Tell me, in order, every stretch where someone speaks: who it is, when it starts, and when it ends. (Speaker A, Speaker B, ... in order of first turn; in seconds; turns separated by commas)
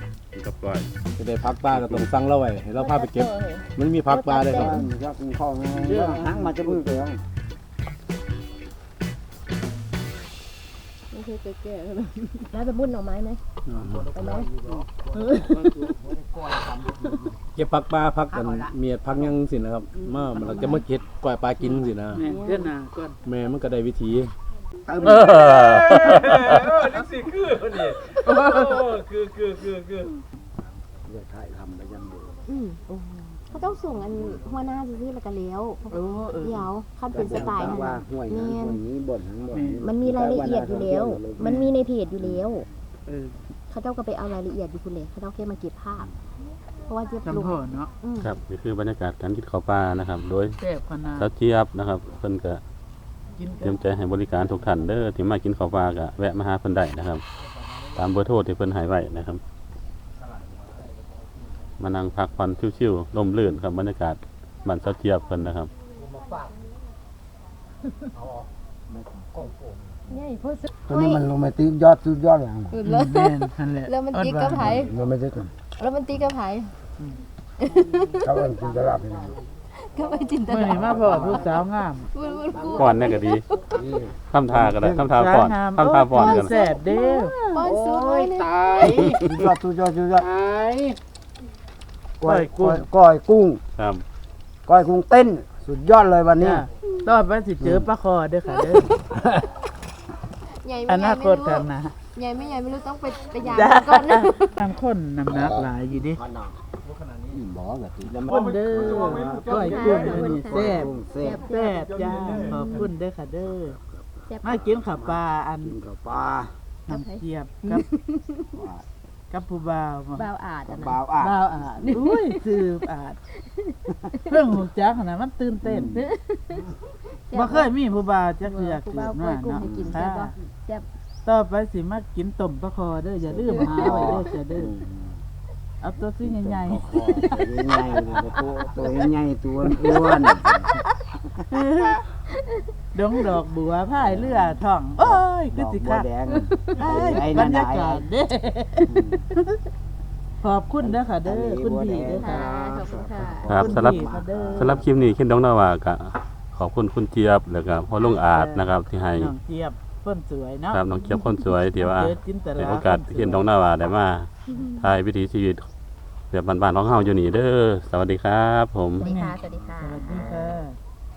Speaker A: 0.3-0.9, Speaker B: 1.2-4.7, Speaker A: 1.7-2.1, Speaker C: 2.7-4.9, Speaker D: 4.6-7.2, Speaker B: 5.7-7.1, Speaker C: 11.1-13.4, Speaker B: 13.7-14.1, Speaker D: 13.9-15.3, Speaker C: 14.1-14.5, Speaker C: 15.2-15.9, Speaker B: 15.5-15.9, Speaker D: 15.9-17.2, Speaker B: 17.6-22.2, Speaker C: 20.4-20.8, Speaker C: 22.2-22.7, Speaker E: 22.2-23.2, Speaker B: 23.3-24.3, Speaker D: 24.9-25.5, Speaker A: 25.0-26.6, Speaker B: 25.6-30.1, Speaker D: 31.1-32.4, Speaker C: 32.5-38.9, Speaker E: 35.9-36.7, Speaker D: 37.1-41.6, Speaker E: 37.3-37.9, Speaker E: 39.5-39.9, Speaker C: 39.8-42.7, Speaker D: 42.2-42.5, Speaker E: 43.1-43.4, Speaker C: 43.7-46.1, Speaker C: 46.8-48.3, Speaker E: 47.2-47.9, Speaker A: 48.2-50.6, Speaker E: 50.6-51.3, Speaker A: 51.2-52.6, Speaker E: 53.4-53.8, Speaker A: 53.6-57.2, Speaker A: 58.0-59.4, Speaker A: 61.8-65.7, Speaker D: 68.9-69.6, Speaker C: 70.1-71.3, Speaker D: 71.0-72.8, Speaker C: 72.7-74.9, Speaker E: 72.8-74.9, Speaker D: 74.8-75.5, Speaker C: 75.8-76.7, Speaker C: 77.6-78.5, Speaker D: 78.2-79.4, Speaker F: 78.5-79.4, Speaker C: 79.7-83.8, Speaker E: 80.4-82.1, Speaker D: 80.8-81.5, Speaker F: 82.5-83.1, Speaker A: 82.8-83.5, Speaker F: 83.7-84.2, Speaker A: 84.3-86.6, Speaker D: 84.5-84.9, Speaker E: 84.8-87.6, Speaker C: 86.1-89.0, Speaker F: 87.6-89.4, Speaker D: 89.0-90.3, Speaker F: 90.2-91.0, Speaker D: 92.2-93.6, Speaker E: 92.2-92.9, Speaker A: 93.8-94.0, Speaker D: 94.7-96.7, Speaker E: 96.4-98.9, Speaker D: 97.6-97.9, Speaker C: 98.5-98.9, Speaker C: 100.5-104.5, Speaker E: 100.9-102.0, Speaker E: 103.4-106.2, Speaker D: 105.3-106.5, Speaker B: 106.9-107.3, Speaker F: 107.3-108.1, Speaker D: 108.1-109.6, Speaker E: 108.2-113.8, Speaker B: 108.4-110.2, Speaker C: 108.8-112.9, Speaker D: 110.1-111.4, Speaker B: 111.1-112.5, Speaker D: 113.4-116.5, Speaker C: 114.3-114.6, Speaker E: 114.4-115.8, Speaker E: 116.9-117.9, Speaker C: 116.9-118.6, Speaker D: 118.5-118.8, Speaker E: 119.3-120.3, Speaker C: 120.2-122.5, Speaker D: 120.7-121.4, Speaker E: 121.2-123.2, Speaker C: 123.3-124.4, Speaker E: 124.3-126.0, Speaker D: 125.6-126.0, Speaker C: 125.9-126.7, Speaker C: 127.2-127.7, Speaker E: 127.3-130.3, Speaker C: 128.4-130.9, Speaker D: 129.6-130.0, Speaker E: 131.2-134.7, Speaker D: 133.2-135.2, Speaker C: 133.5-134.3, Speaker E: 135.8-137.9, Speaker D: 136.2-140.7, Speaker F: 138.1-138.6, Speaker E: 139.6-140.7, Speaker D: 141.2-141.6, Speaker E: 141.5-142.0, Speaker E: 142.9-149.5, Speaker D: 143.9-148.1, Speaker D: 148.9-149.2, Speaker E: 150.4-152.6, Speaker D: 150.8-155.0, Speaker C: 152.1-153.6, Speaker A: 153.4-159.3, Speaker E: 153.6-154.8, Speaker E: 158.0-160.8, Speaker A: 160.7-165.7, Speaker E: 161.8-163.5, Speaker A: 166.3-169.1, Speaker C: 169.0-170.6, Speaker E: 169.0-170.8